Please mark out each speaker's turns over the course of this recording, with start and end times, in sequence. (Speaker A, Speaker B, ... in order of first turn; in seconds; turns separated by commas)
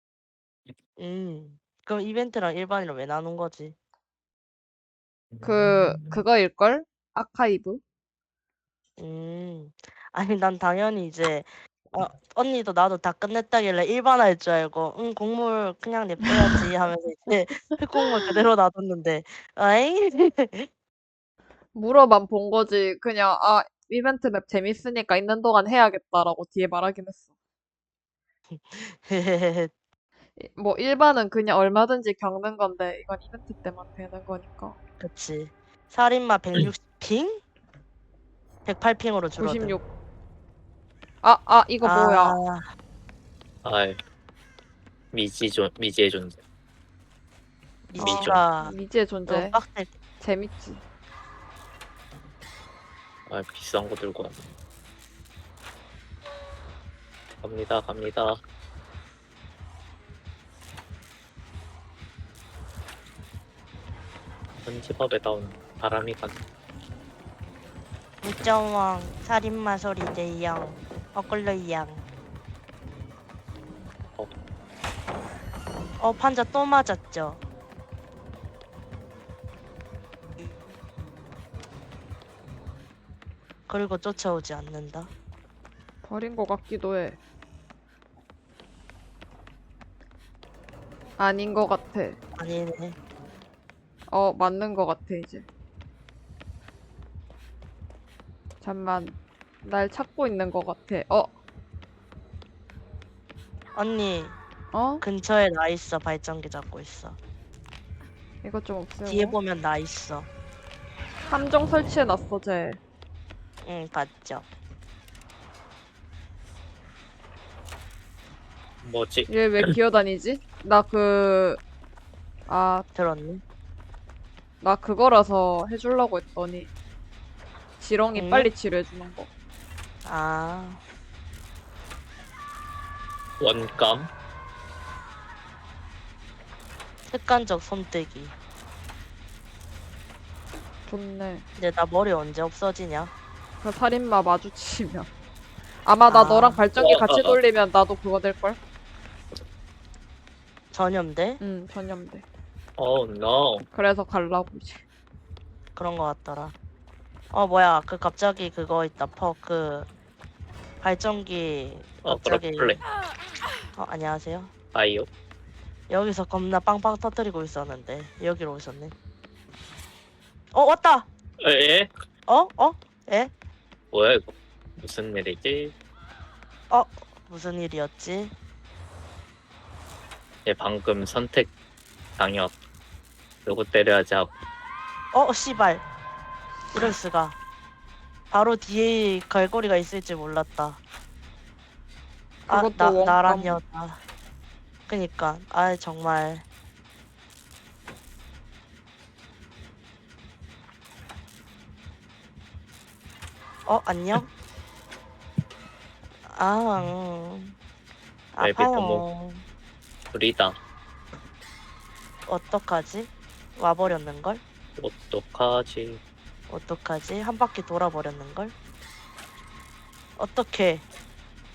Speaker A: 1.0-3.8, Speaker B: 5.3-6.2, Speaker C: 5.4-7.8, Speaker A: 9.0-20.7, Speaker C: 16.3-16.6, Speaker C: 21.8-27.2, Speaker A: 28.5-29.7, Speaker C: 30.4-34.8, Speaker A: 35.0-37.4, Speaker A: 38.6-39.8, Speaker C: 39.4-39.9, Speaker C: 41.2-42.4, Speaker A: 41.8-42.6, Speaker B: 43.6-44.0, Speaker B: 45.1-46.4, Speaker A: 47.9-48.8, Speaker B: 48.0-48.4, Speaker C: 48.0-49.6, Speaker A: 49.3-49.9, Speaker C: 50.2-50.8, Speaker B: 53.3-54.4, Speaker B: 57.4-58.4, Speaker B: 64.7-66.4, Speaker A: 68.2-72.0, Speaker A: 76.0-77.4, Speaker A: 83.7-85.1, Speaker C: 86.0-87.2, Speaker C: 91.2-92.2, Speaker A: 92.4-93.0, Speaker C: 94.1-95.5, Speaker C: 98.6-101.3, Speaker A: 103.8-104.4, Speaker C: 104.7-105.0, Speaker A: 105.0-107.2, Speaker C: 108.4-109.4, Speaker A: 109.1-110.3, Speaker C: 111.3-112.8, Speaker A: 113.6-114.5, Speaker B: 118.8-119.8, Speaker C: 119.3-121.6, Speaker C: 122.5-122.8, Speaker A: 123.0-123.4, Speaker C: 124.6-126.7, Speaker C: 127.8-129.3, Speaker A: 128.2-128.5, Speaker A: 130.1-130.8, Speaker B: 133.4-134.1, Speaker A: 137.1-138.3, Speaker C: 140.9-141.4, Speaker A: 141.6-143.1, Speaker C: 143.6-145.1, Speaker C: 145.8-148.6, Speaker A: 146.1-146.6, Speaker B: 146.8-147.4, Speaker A: 150.7-151.4, Speaker C: 151.4-152.2, Speaker B: 152.8-153.7, Speaker C: 153.7-154.8, Speaker A: 155.8-156.5, Speaker A: 157.3-159.9, Speaker A: 160.8-162.8, Speaker B: 162.0-162.8, Speaker A: 163.8-164.5, Speaker B: 164.7-165.1, Speaker A: 165.9-168.9, Speaker A: 170.5-171.1, Speaker B: 171.4-171.9, Speaker A: 172.3-173.3, Speaker B: 173.9-175.8, Speaker A: 176.7-178.3, Speaker B: 180.5-181.5, Speaker B: 182.2-182.6, Speaker B: 183.5-184.3, Speaker A: 185.1-185.8, Speaker A: 186.7-187.4, Speaker A: 188.3-190.8, Speaker C: 192.5-193.6, Speaker A: 192.5-194.0, Speaker A: 194.9-196.4, Speaker A: 203.7-204.3, Speaker A: 206.3-207.5, Speaker A: 208.3-209.4, Speaker B: 208.4-209.0, Speaker B: 210.1-210.6, Speaker A: 212.3-214.4, Speaker B: 214.8-216.0, Speaker A: 216.5-218.5, Speaker A: 220.2-220.8